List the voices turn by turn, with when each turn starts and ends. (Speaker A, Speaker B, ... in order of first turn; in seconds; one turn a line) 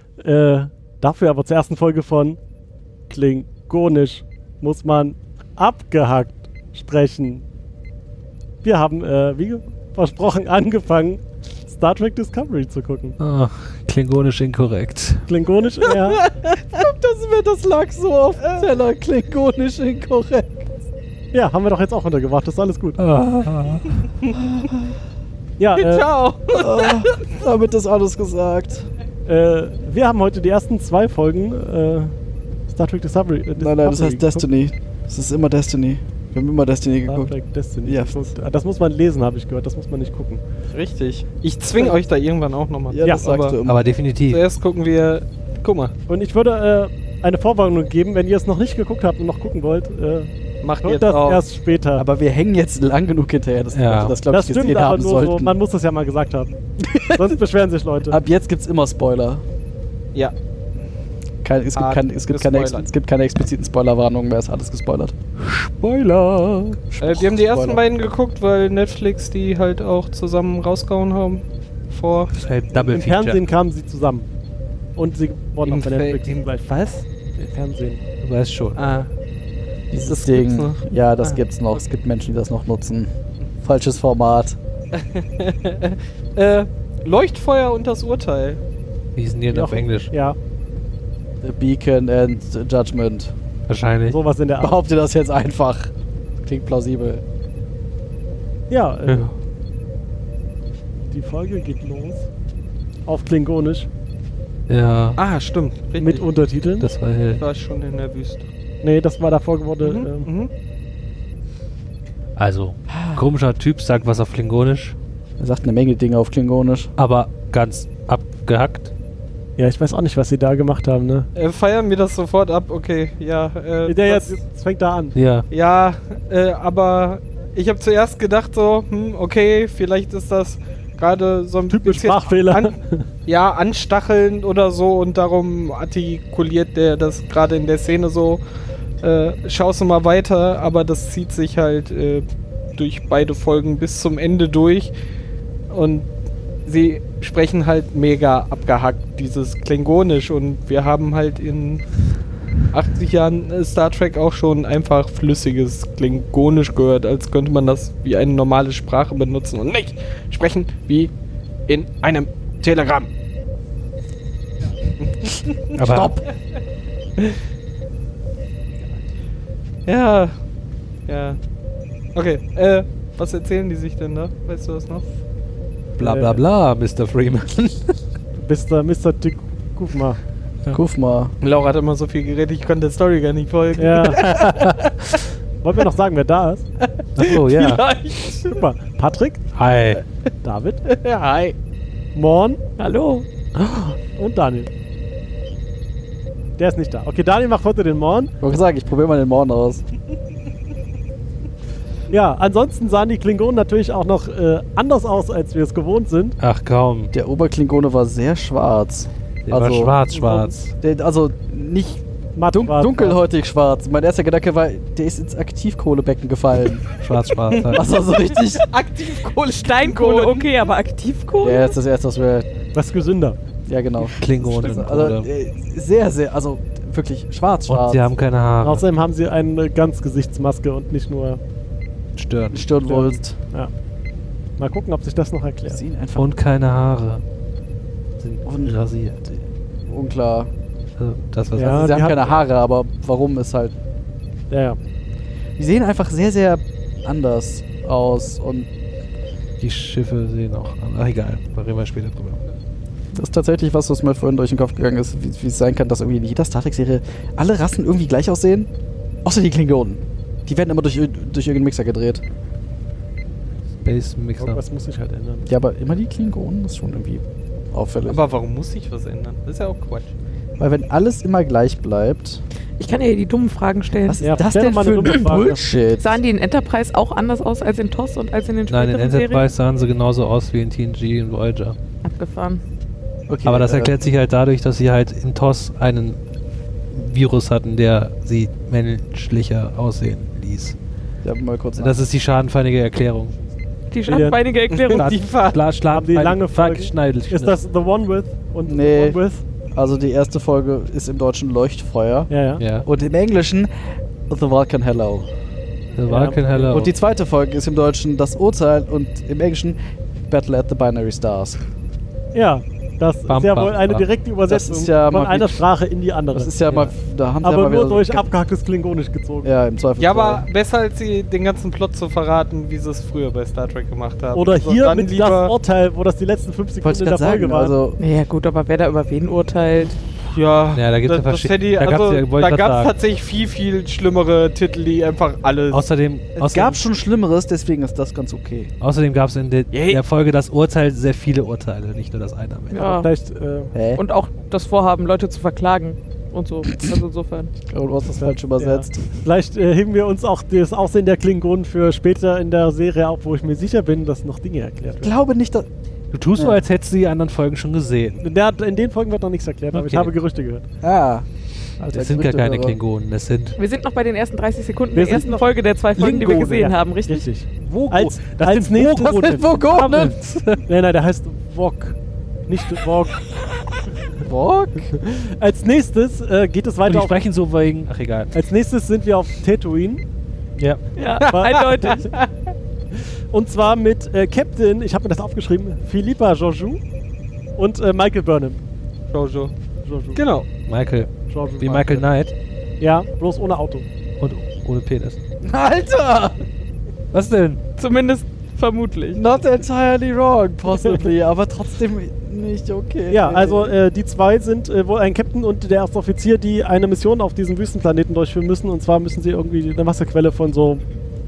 Speaker A: 0.2-2.4
Speaker A: 3.1-7.5
Speaker A: 8.6-13.2
Speaker B: 13.2-15.3
Speaker A: 15.3-16.2
Speaker C: 16.1-16.5
Speaker D: 16.7-20.7
Speaker C: 18.4-18.7
Speaker A: 21.3-23.0
Speaker B: 23.0-23.9
Speaker D: 24.3-24.9
Speaker A: 25.6-26.1
Speaker C: 25.8-27.3
Speaker D: 26.5-28.9
Speaker A: 29.3-32.1
Speaker A: 32.7-34.5
Speaker D: 33.6-37.3
Speaker A: 37.1-40.4
Speaker D: 37.9-38.3
Speaker C: 40.7-43.6
Speaker D: 42.9-43.8
Speaker B: 43.6-44.4
Speaker C: 44.2-45.9
Speaker A: 46.1-52.0
Speaker C: 50.6-51.4
Speaker D: 52.0-55.5
Speaker B: 53.7-54.2
Speaker A: 54.3-58.2
Speaker D: 56.8-57.4
Speaker D: 58.1-59.4
Speaker D: 61.4-65.2
Speaker C: 61.7-62.9
Speaker B: 65.5-66.4
Speaker D: 66.4-67.8
Speaker C: 67.0-72.3
Speaker B: 72.3-73.4
Speaker A: 72.7-74.3
Speaker A: 75.0-78.0
Speaker C: 75.7-77.0
Speaker B: 78.2-78.8
Speaker C: 78.8-79.1
Speaker D: 79.9-84.6
Speaker C: 80.0-81.4
Speaker C: 84.9-88.6
Speaker B: 89.2-90.1
Speaker A: 89.5-90.4
Speaker D: 91.4-93.3
Speaker B: 93.7-94.2
Speaker A: 94.0-94.8
Speaker D: 94.6-95.9
Speaker D: 96.4-97.2
Speaker A: 98.7-99.3
Speaker A: 101.1-102.3
Speaker A: 103.1-103.9
Speaker B: 104.7-105.2
Speaker C: 105.2-106.3
Speaker A: 106.0-106.9
Speaker B: 106.8-107.4
Speaker C: 107.3-108.5
Speaker A: 108.8-110.3
Speaker C: 109.8-110.5
Speaker B: 112.4-115.0
Speaker D: 112.9-113.2
Speaker D: 115.4-116.9
Speaker B: 117.0-118.9
Speaker A: 119.6-121.3
Speaker C: 121.3-124.4
Speaker A: 123.9-125.2
Speaker B: 125.2-125.5
Speaker C: 125.5-138.4
Speaker A: 131.7-133.1
Speaker C: 139.0-142.2
Speaker C: 142.8-144.9
Speaker C: 145.7-146.1
Speaker C: 146.7-151.8
Speaker C: 152.7-161.1
Speaker C: 161.7-163.1
Speaker C: 165.0-165.8
Speaker B: 165.8-166.2
Speaker D: 165.8-166.3
Speaker C: 169.9-170.4
Speaker C: 171.1-171.4
Speaker C: 172.2-175.1
Speaker B: 176.0-178.0
Speaker A: 176.0-176.4
Speaker A: 178.4-180.2
Speaker D: 180.7-181.3
Speaker C: 181.4-185.2
Speaker A: 183.8-184.2
Speaker B: 184.2-184.8
Speaker A: 185.6-186.6
Speaker C: 186.8-188.6
Speaker B: 187.2-187.8
Speaker A: 188.5-189.4
Speaker B: 189.6-190.0
Speaker A: 190.4-190.8
Speaker C: 190.9-191.6
Speaker A: 192.2-192.6
Speaker E: 192.8-193.3
Speaker A: 194.2-194.7
Speaker A: 196.6-198.3
Speaker D: 198.4-199.8
Speaker A: 202.1-206.4
Speaker B: 206.4-207.1
Speaker D: 207.1-210.0
Speaker B: 209.5-210.7
Speaker D: 210.8-216.8
Speaker A: 212.4-213.2
Speaker B: 217.0-217.8
Speaker C: 217.3-220.7
Speaker D: 217.7-218.7
Speaker E: 219.5-221.8
Speaker D: 221.4-222.5
Speaker A: 222.7-223.4
Speaker D: 223.7-228.1
Speaker B: 224.0-225.3
Speaker B: 227.7-228.8
Speaker A: 228.6-231.4
Speaker B: 232.2-232.6
Speaker D: 232.5-233.4
Speaker A: 232.9-233.7
Speaker A: 234.6-235.8
Speaker D: 235.7-236.3
Speaker B: 236.2-237.2
Speaker B: 238.2-239.2
Speaker D: 238.4-240.5
Speaker B: 241.0-241.9
Speaker A: 241.6-242.4
Speaker D: 241.6-243.7
Speaker A: 244.5-244.8
Speaker D: 245.6-248.7
Speaker B: 249.6-252.4
Speaker D: 253.1-258.7
Speaker D: 259.2-262.2
Speaker B: 263.8-264.6
Speaker A: 264.4-265.5
Speaker D: 265.4-268.2
Speaker C: 268.1-270.1
Speaker D: 270.6-272.4
Speaker E: 272.8-274.3
Speaker D: 274.1-276.2
Speaker A: 274.2-275.6
Speaker E: 276.0-279.5
Speaker B: 278.7-281.8
Speaker E: 282.0-282.6
Speaker D: 283.3-284.0
Speaker B: 283.4-286.2
Speaker B: 286.9-290.8
Speaker D: 291.2-292.0
Speaker B: 291.8-293.4
Speaker E: 293.9-295.1
Speaker A: 294.1-294.4
Speaker C: 294.7-295.6
Speaker B: 295.0-297.6
Speaker A: 295.9-299.4
Speaker D: 298.7-299.2
Speaker D: 299.7-303.7
Speaker A: 302.3-302.6
Speaker B: 302.6-302.9
Speaker D: 304.3-305.3
Speaker B: 305.9-306.9
Speaker A: 306.1-306.7
Speaker D: 306.7-309.8
Speaker D: 310.3-311.6
Speaker A: 312.3-316.5
Speaker B: 313.3-314.1
Speaker D: 314.5-315.6
Speaker D: 316.3-318.3
Speaker A: 317.4-319.5
Speaker D: 319.4-320.5
Speaker C: 320.0-325.5
Speaker A: 324.3-327.8
Speaker D: 326.8-328.0
Speaker E: 328.0-330.0
Speaker C: 330.2-336.7
Speaker B: 330.7-332.9
Speaker B: 335.7-336.8
Speaker D: 336.4-338.7
Speaker B: 338.8-342.9
Speaker C: 339.7-340.0
Speaker E: 342.7-343.1
Speaker A: 342.8-343.7
Speaker D: 343.7-344.0
Speaker E: 343.9-347.5
Speaker D: 347.6-349.2
Speaker A: 348.2-355.1
Speaker D: 355.0-355.7
Speaker B: 356.1-358.2
Speaker D: 356.3-356.6
Speaker A: 358.2-360.6
Speaker B: 359.7-360.1
Speaker D: 360.8-361.3
Speaker D: 361.8-362.8
Speaker B: 361.9-363.6
Speaker E: 363.6-367.3
Speaker A: 364.9-370.1
Speaker B: 367.6-370.6
Speaker D: 369.1-370.2
Speaker A: 370.6-373.2
Speaker D: 374.2-374.9
Speaker A: 374.9-377.2
Speaker B: 376.9-378.3
Speaker A: 378.3-380.0
Speaker B: 380.6-380.8
Speaker E: 381.0-382.0
Speaker C: 381.2-382.3
Speaker A: 381.3-382.1
Speaker A: 383.3-386.8
Speaker A: 387.6-388.6
Speaker C: 389.1-389.5
Speaker A: 389.9-390.2
Speaker C: 390.1-390.5
Speaker B: 390.7-392.3
Speaker A: 391.3-392.1
Speaker A: 392.8-393.9
Speaker B: 394.2-395.2
Speaker D: 395.4-396.4
Speaker B: 397.1-397.6
Speaker E: 397.8-399.2
Speaker D: 399.1-403.8
Speaker A: 400.7-401.0
Speaker A: 403.1-410.8